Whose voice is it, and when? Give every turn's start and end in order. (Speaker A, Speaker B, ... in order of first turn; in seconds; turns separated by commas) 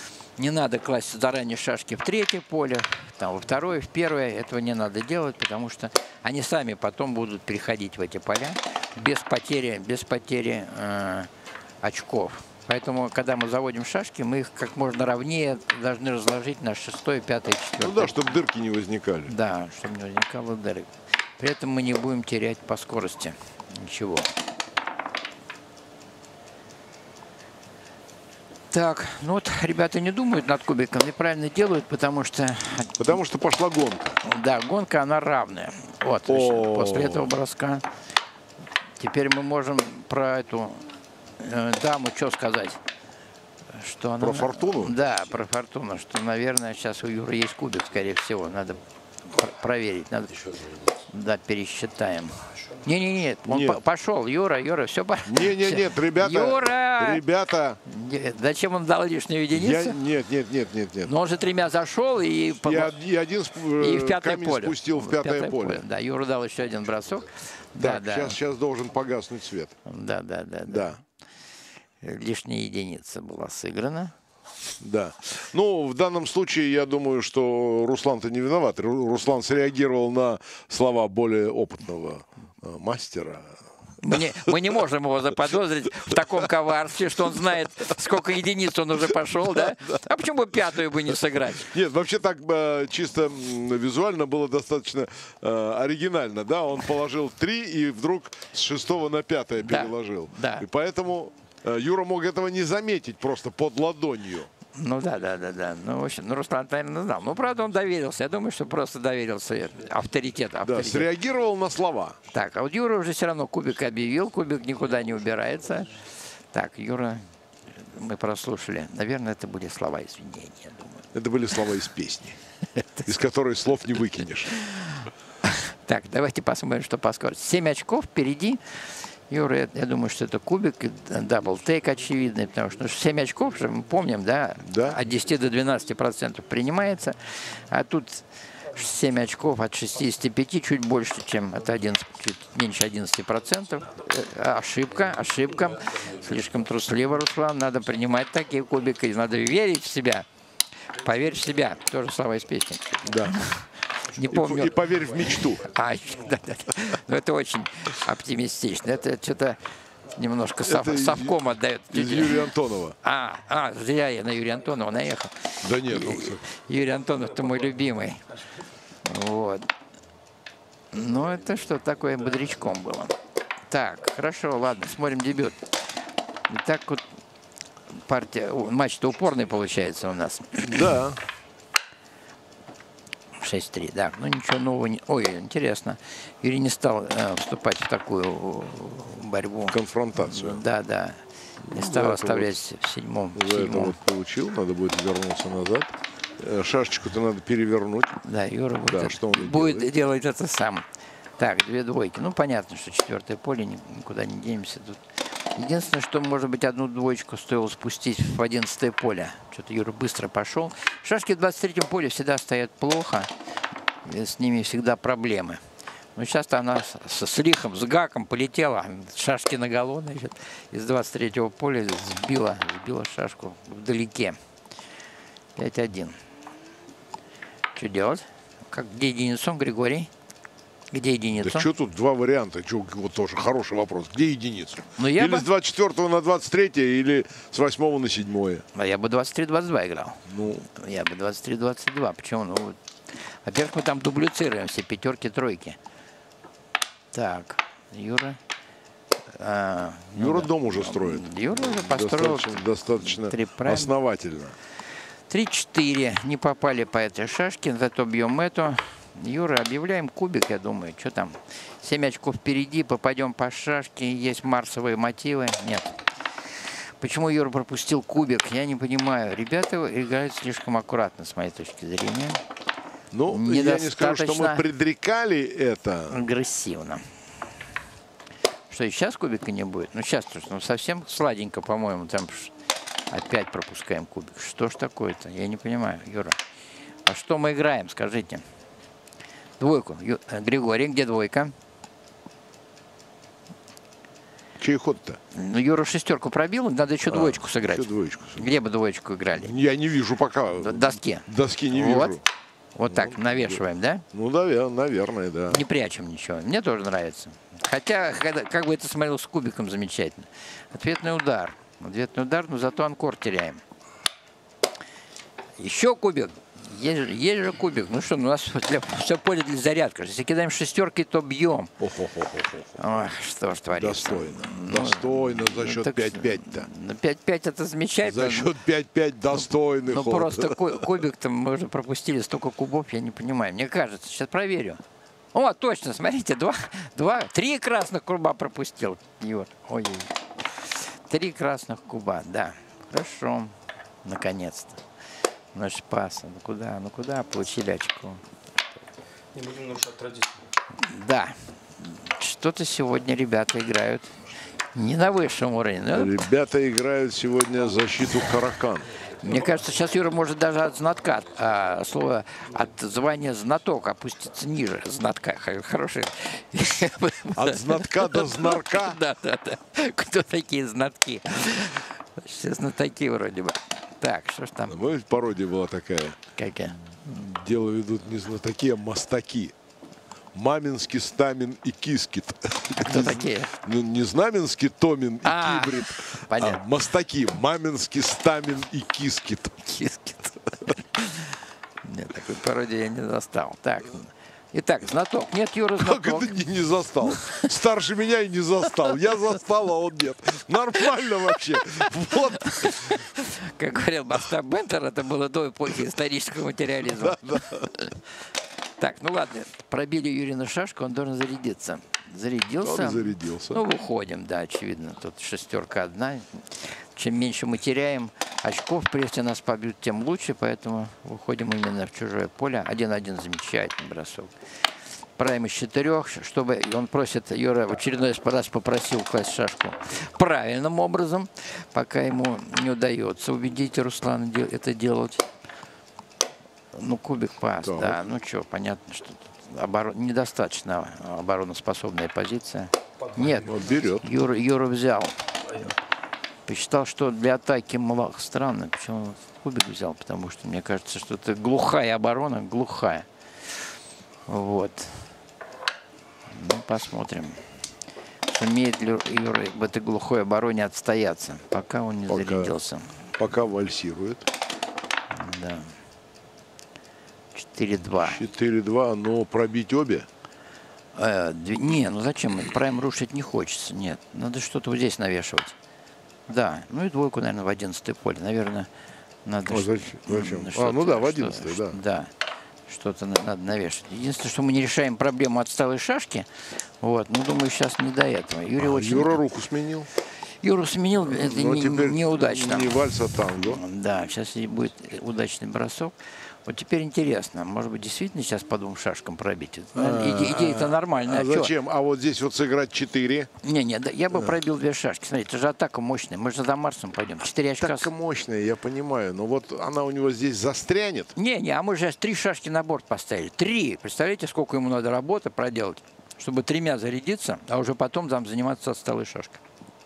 Speaker A: 0.4-11.3, Speaker A: 11.8-18.3, Speaker B: 17.8-19.3, Speaker A: 19.3-24.3, Speaker A: 28.7-33.2, Speaker B: 33.0-34.2, Speaker A: 34.2-37.9, Speaker B: 36.2-37.3, Speaker A: 39.0-40.9, Speaker A: 41.4-42.8, Speaker A: 43.7-50.4, Speaker B: 44.2-45.0, Speaker A: 51.1-57.2, Speaker B: 53.5-53.8, Speaker B: 55.3-57.8, Speaker A: 57.9-60.0, Speaker B: 59.5-61.1, Speaker A: 61.0-63.0, Speaker B: 62.6-65.8, Speaker A: 63.8-68.4, Speaker B: 67.8-69.7, Speaker A: 69.8-71.0, Speaker B: 70.7-71.0, Speaker A: 72.0-74.1, Speaker B: 74.8-83.6, Speaker A: 84.0-91.7, Speaker B: 91.6-104.5, Speaker A: 99.6-100.7, Speaker A: 104.8-111.1, Speaker B: 110.6-112.2, Speaker A: 112.3-115.9, Speaker A: 116.5-117.2, Speaker A: 117.8-121.0, Speaker B: 121.1-122.4, Speaker A: 122.8-123.1, Speaker B: 123.0-124.6, Speaker A: 124.6-124.9, Speaker A: 125.5-150.3, Speaker B: 134.6-135.0, Speaker A: 150.9-159.6, Speaker B: 153.0-153.4, Speaker B: 154.2-155.7, Speaker A: 160.1-162.4, Speaker B: 160.6-161.4, Speaker B: 161.9-163.0, Speaker A: 163.0-168.2, Speaker B: 165.6-166.4, Speaker A: 169.0-169.7, Speaker A: 170.9-173.2, Speaker A: 173.7-175.7, Speaker A: 176.5-177.0, Speaker A: 177.9-180.9, Speaker B: 180.7-181.2, Speaker A: 183.4-191.2, Speaker B: 189.7-190.6, Speaker B: 191.7-192.6, Speaker A: 191.7-194.0, Speaker B: 193.3-198.2, Speaker A: 198.2-200.8, Speaker B: 198.9-199.9, Speaker A: 201.4-205.0, Speaker A: 205.6-213.3, Speaker A: 214.0-215.6, Speaker A: 216.2-224.4, Speaker A: 225.6-226.2, Speaker A: 227.7-230.1, Speaker A: 230.9-231.7, Speaker B: 231.4-238.7, Speaker A: 235.0-235.5, Speaker A: 238.7-242.8, Speaker B: 240.3-240.7, Speaker A: 243.3-245.8, Speaker A: 247.1-248.4, Speaker A: 249.3-253.9, Speaker B: 250.1-254.6, Speaker A: 255.3-266.0, Speaker A: 267.0-272.4, Speaker B: 273.1-276.2, Speaker A: 273.3-274.6, Speaker A: 276.1-277.0, Speaker A: 278.7-282.5, Speaker A: 283.1-286.4, Speaker A: 287.1-288.4, Speaker A: 289.6-291.5, Speaker B: 294.6-295.2, Speaker A: 295.3-299.6, Speaker B: 297.1-298.5, Speaker B: 299.3-302.2, Speaker A: 300.6-302.1, Speaker A: 302.7-304.0, Speaker B: 302.9-303.6, Speaker B: 304.1-305.6, Speaker A: 305.5-313.6, Speaker A: 315.6-321.7, Speaker B: 321.8-322.9, Speaker A: 322.8-328.5, Speaker B: 323.7-326.7, Speaker B: 328.0-330.6, Speaker A: 329.9-334.8, Speaker A: 335.3-343.5, Speaker A: 344.0-344.8, Speaker A: 345.5-348.2, Speaker C: 349.3-350.5, Speaker A: 350.8-354.1, Speaker A: 354.7-356.1, Speaker B: 355.9-359.0, Speaker A: 359.2-374.8, Speaker B: 367.3-369.0, Speaker B: 374.7-376.2, Speaker A: 376.4-376.8, Speaker B: 376.8-379.5, Speaker B: 380.3-389.8, Speaker A: 382.8-383.5, Speaker A: 385.2-386.6, Speaker A: 389.7-391.3, Speaker A: 391.8-396.4, Speaker B: 395.8-403.0, Speaker A: 402.5-407.4, Speaker B: 406.9-407.7, Speaker A: 408.8-424.3, Speaker B: 412.6-413.6, Speaker A: 425.2-435.2, Speaker A: 436.7-445.1, Speaker B: 437.6-438.0, Speaker C: 443.0-443.8, Speaker B: 443.4-444.1, Speaker C: 445.4-445.7, Speaker A: 446.5-453.1, Speaker A: 454.3-455.1, Speaker A: 456.3-457.4, Speaker A: 458.3-462.9, Speaker B: 462.1-462.5, Speaker B: 463.2-464.3, Speaker A: 465.1-465.7, Speaker A: 467.3-468.2, Speaker B: 468.0-470.1, Speaker A: 470.9-475.5, Speaker A: 476.3-478.7, Speaker A: 479.2-482.1, Speaker B: 479.5-481.8, Speaker A: 482.7-489.2, Speaker B: 488.6-489.9, Speaker A: 490.4-492.8, Speaker B: 491.0-493.6, Speaker A: 493.4-495.9, Speaker A: 496.4-501.5, Speaker B: 499.7-503.3, Speaker A: 503.4-507.9, Speaker B: 507.6-511.1, Speaker A: 511.1-519.4